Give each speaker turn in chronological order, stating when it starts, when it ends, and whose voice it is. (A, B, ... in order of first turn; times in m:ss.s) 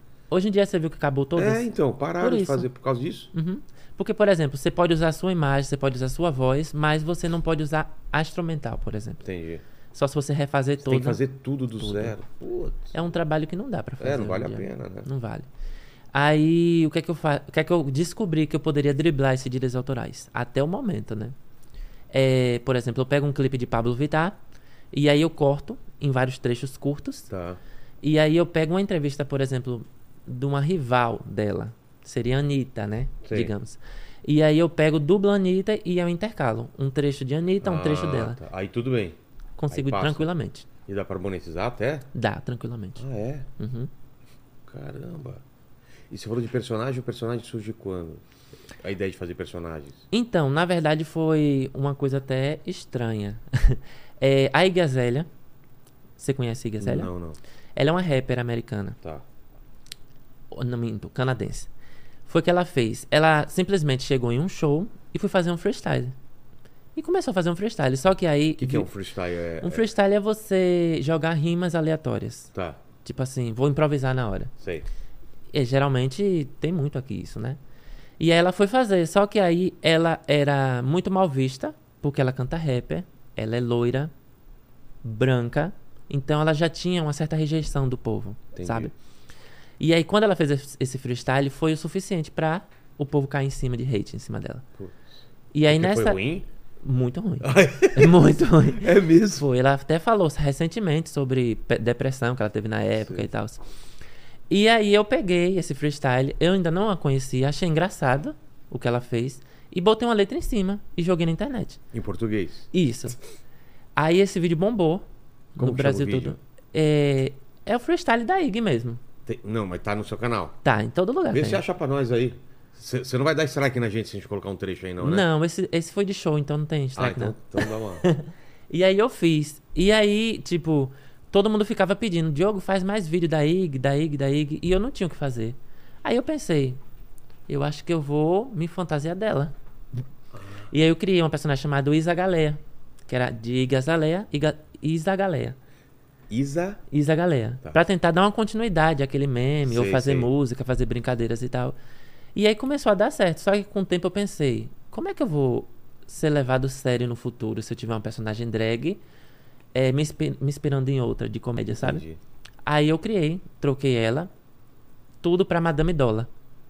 0:00.3-0:01.7 A
0:01.4-0:03.3 B
0:02.2-0:02.7 A
0:03.3-0:09.2 A
0:09.2-0:09.6 B
0:09.9-0:11.2 A
0:10.8-0:13.0 B
0:11.7-0:12.1 A
0:12.9-0:15.5 A
0:14.0-0:15.1 B
0:16.1-0:21.3 A
0:22.1-0:24.4 A
0:24.9-0:27.3 A
0:27.3-0:27.6 B
0:28.0-0:38.4 A
0:33.2-0:33.5 B
0:37.6-0:39.2 B
0:39.6-0:40.6 A
0:39.7-0:40.3 B
0:40.8-0:42.1 B
0:42.1-0:43.0 A
0:43.0-0:43.5 B
0:43.6-0:43.9 A
0:44.6-0:45.4 B
0:46.1-0:48.2 B
0:48.8-0:50.0 B
0:50.1-0:55.3 A
0:56.2-0:57.1 A
0:56.8-0:57.4 B
0:57.8-0:59.0 A
1:00.5-1:01.7 A
1:02.2-1:06.1 A
1:06.9-1:08.9 A
1:08.6-1:09.9 B
1:09.6-1:12.5 A
1:12.5-1:12.8 B
1:13.0-1:14.5 A
1:14.6-1:14.9 B
1:15.5-1:17.6 A
1:18.2-1:24.1 A
1:25.0-1:28.9 A
1:28.5-1:28.9 B
1:29.8-1:34.6 A
1:34.8-1:35.1 B
1:35.5-1:36.2 A
1:35.7-1:36.4 B
1:36.8-1:43.6 A
1:37.4-1:39.4 B
1:43.0-1:43.3 B
1:44.5-1:51.8 A
1:51.9-1:52.7 B
1:52.7-1:53.2 A
1:54.0-1:59.0 A
1:55.6-1:56.4 B
1:59.2-2:00.6 B
2:00.6-2:01.6 A
2:01.3-2:05.3 B
2:05.0-2:16.8 A
2:07.0-2:08.0 B
2:17.5-2:19.5 A
2:20.3-2:20.7 B
2:20.7-2:25.6 A
2:26.3-2:26.8 B
2:26.9-2:31.8 A
2:29.6-2:30.3 B
2:32.3-2:39.0 A
2:39.7-2:42.0 A
2:41.7-2:42.2 B
2:42.6-2:44.3 A
2:45.2-2:46.3 A